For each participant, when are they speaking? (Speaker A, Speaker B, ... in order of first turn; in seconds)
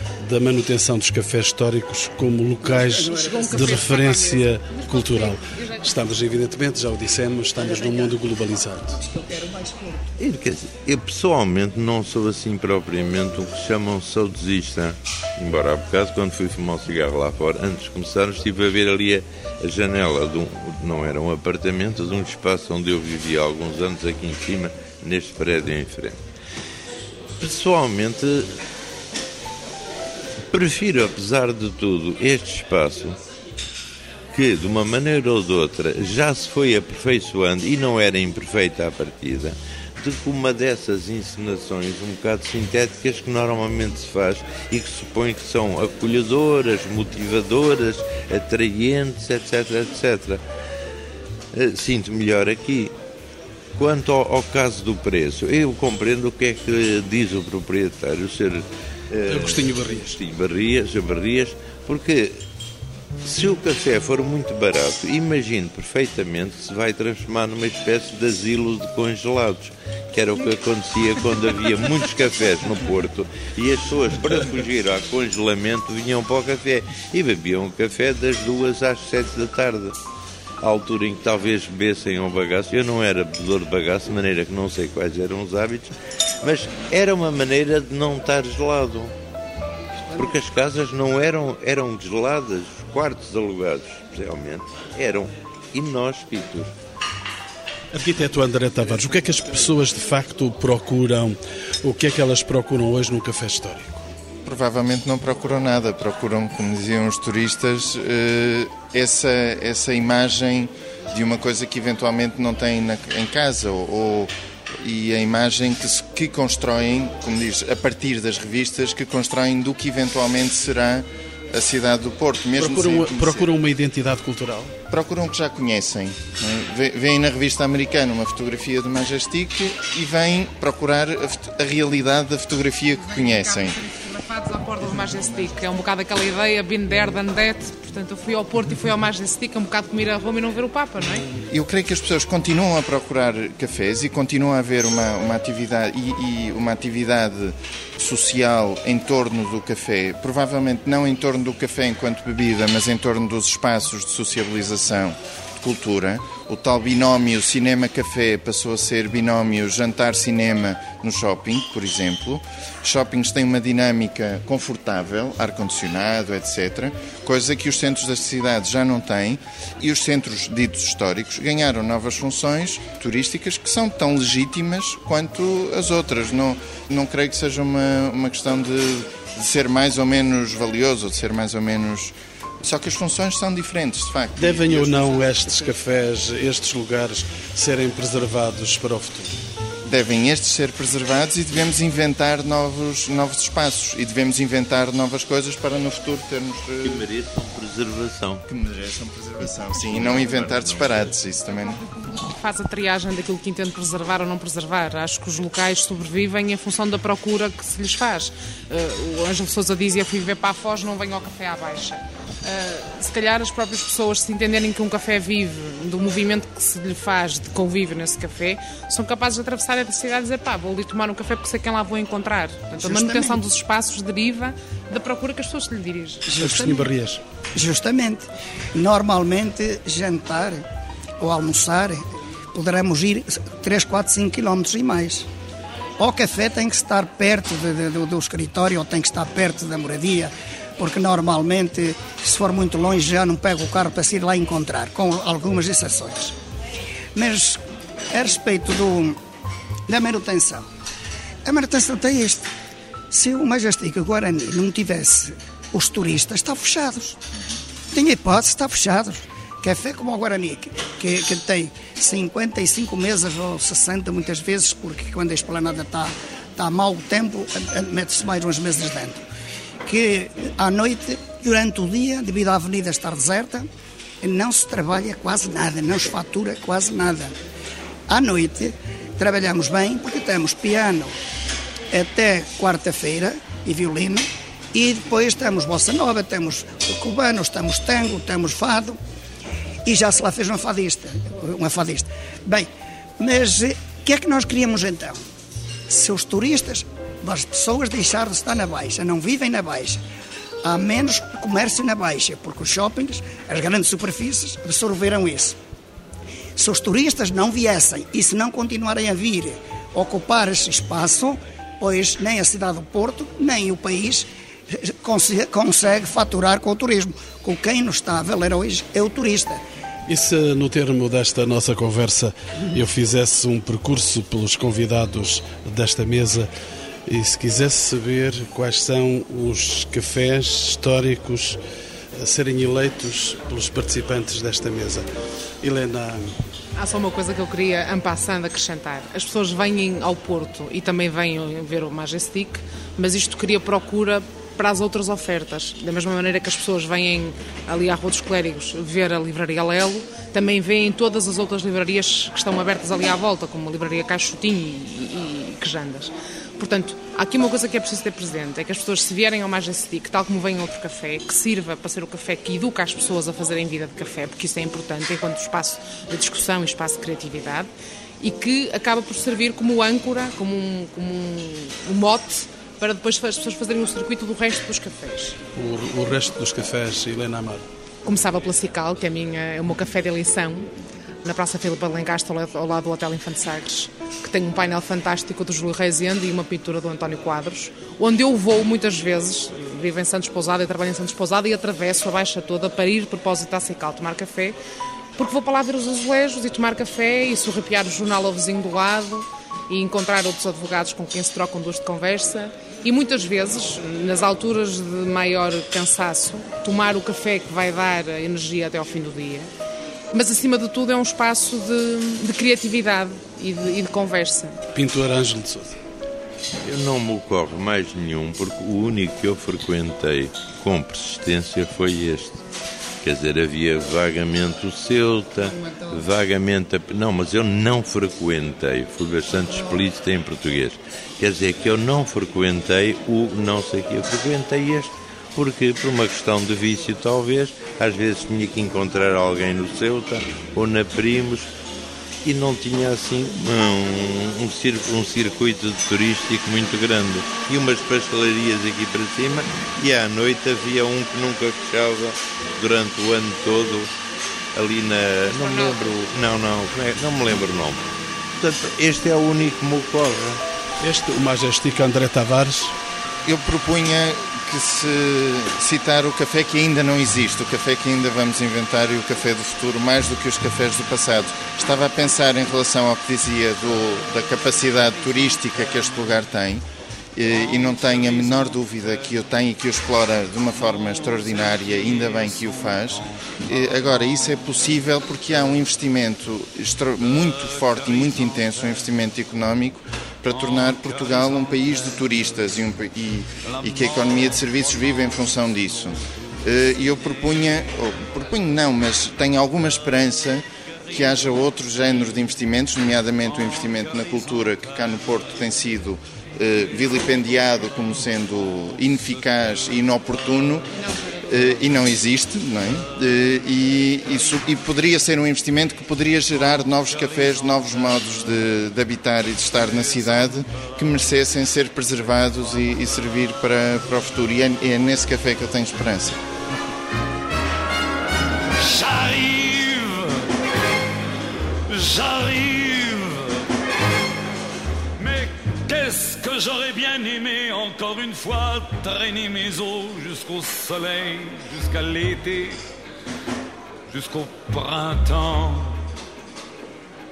Speaker A: 0.2-9.0, 59.3-60.2, 97.9-104.0, 122.6-124.7, 184.4-189.3, 226.3-227.2, 320.1-326.5, 327.1-331.6, 332.1-335.1, 335.6-336.3, 375.6-377.6, 414.7-415.8, 460.8-462.7
Speaker B: 2.6-3.9, 7.6-8.2, 8.9-10.1, 222.8-223.4, 226.3-226.9, 227.5-230.6, 231.2-235.3, 236.0-246.3, 247.1-247.6, 248.1-249.2, 249.9-250.7, 251.4-252.5, 253.1-257.2, 257.9-269.2, 269.8-273.7, 274.2-277.3, 278.1-281.2, 281.9-289.0, 289.8-295.2, 295.9-300.0, 300.6-305.6, 306.6-319.6
Speaker C: 3.1-5.8, 133.1-141.2, 202.0-226.3, 336.8-375.4, 378.0-380.7, 381.2-394.6, 395.2-409.5, 410.1-414.6, 455.3-455.9
Speaker D: 10.2-26.2, 27.4-28.5, 30.5-33.2, 34.3-50.4, 51.5-52.9, 53.8-62.4, 63.2-80.0, 80.6-89.1, 90.1-96.7, 196.8-198.5, 199.6-201.1, 416.6-422.4, 423.0-441.5, 442.2-453.9, 454.5-457.9, 458.4-460.4
Speaker E: 104.4-123.5, 124.9-133.8, 141.5-185.7, 189.8-197.1, 198.5-201.8, 463.2-476.6, 477.1-526.2
Speaker F: 477.5-478.7, 480.8-482.8, 487.1-488.9, 490.3-491.9, 493.4-495.9, 528.6-530.3, 531.7-533.5, 535.0-542.6, 543.9-545.8